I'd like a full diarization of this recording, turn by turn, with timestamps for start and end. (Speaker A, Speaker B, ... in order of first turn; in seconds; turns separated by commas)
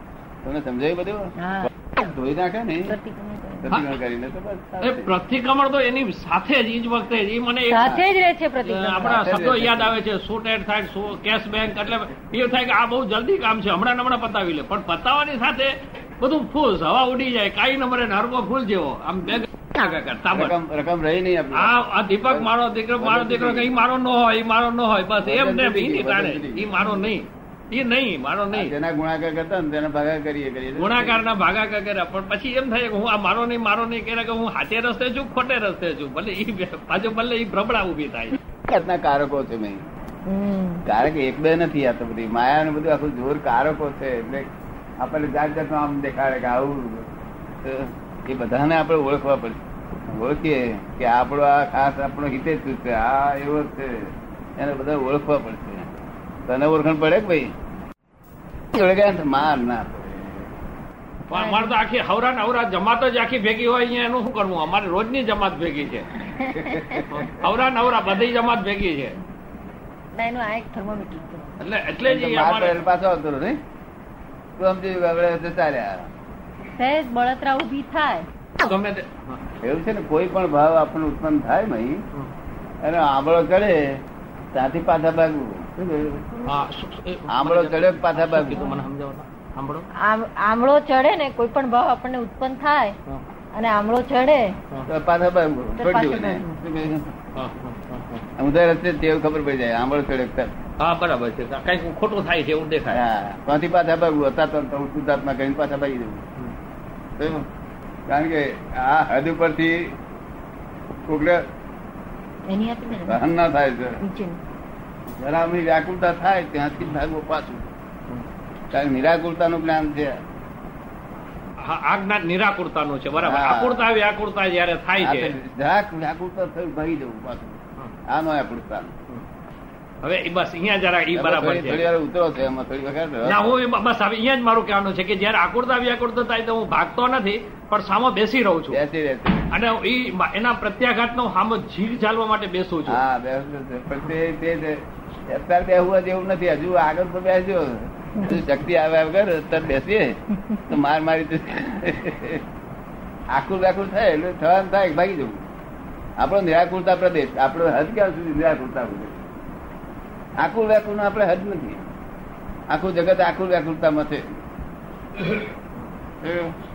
Speaker A: 0.4-3.0, Speaker B: 1.4-1.7, Speaker B: 2.9-3.7, Speaker A: 3.6-5.2, Speaker C: 3.7-4.0, Speaker C: 4.8-8.0, Speaker B: 7.7-9.2, Speaker C: 8.7-20.6, Speaker A: 9.0-9.9, Speaker A: 20.3-23.8, Speaker C: 21.5-28.7, Speaker A: 25.2-26.8, Speaker A: 28.5-31.2, Speaker C: 30.8-38.4, Speaker A: 38.7-39.9, Speaker B: 40.3-40.8, Speaker A: 40.9-56.0, Speaker A: 56.5-57.5, Speaker A: 58.7-60.5, Speaker C: 61.3-66.1, Speaker B: 61.3-61.8, Speaker A: 66.3-67.3, Speaker B: 66.4-67.0, Speaker C: 67.1-69.2, Speaker B: 70.2-71.6, Speaker C: 71.6-72.8, Speaker A: 72.0-73.6, Speaker A: 74.6-76.1, Speaker B: 76.8-78.3, Speaker C: 78.6-79.4, Speaker A: 79.6-82.0, Speaker A: 82.8-86.4, Speaker C: 86.4-89.9, Speaker A: 87.3-88.7, Speaker B: 89.9-93.0, Speaker B: 93.5-94.6, Speaker A: 94.9-97.2, Speaker B: 95.8-96.6, Speaker C: 97.3-98.3, Speaker A: 98.4-100.6, Speaker C: 100.8-103.0, Speaker A: 102.9-106.2, Speaker A: 107.2-107.5, Speaker A: 108.1-110.0, Speaker A: 111.1-111.5, Speaker B: 112.5-113.2, Speaker A: 113.1-114.0, Speaker B: 114.0-114.4, Speaker A: 115.1-117.7, Speaker A: 118.7-120.2, Speaker C: 121.6-125.4, Speaker A: 123.2-123.9, Speaker A: 125.0-128.9, Speaker C: 130.0-131.9, Speaker A: 131.2-133.5, Speaker C: 133.2-138.8, Speaker A: 138.7-139.5, Speaker C: 139.5-143.0, Speaker A: 142.9-152.4, Speaker A: 153.3-155.5, Speaker A: 156.2-159.3, Speaker A: 160.4-161.9, Speaker A: 162.7-164.4, Speaker A: 166.2-166.6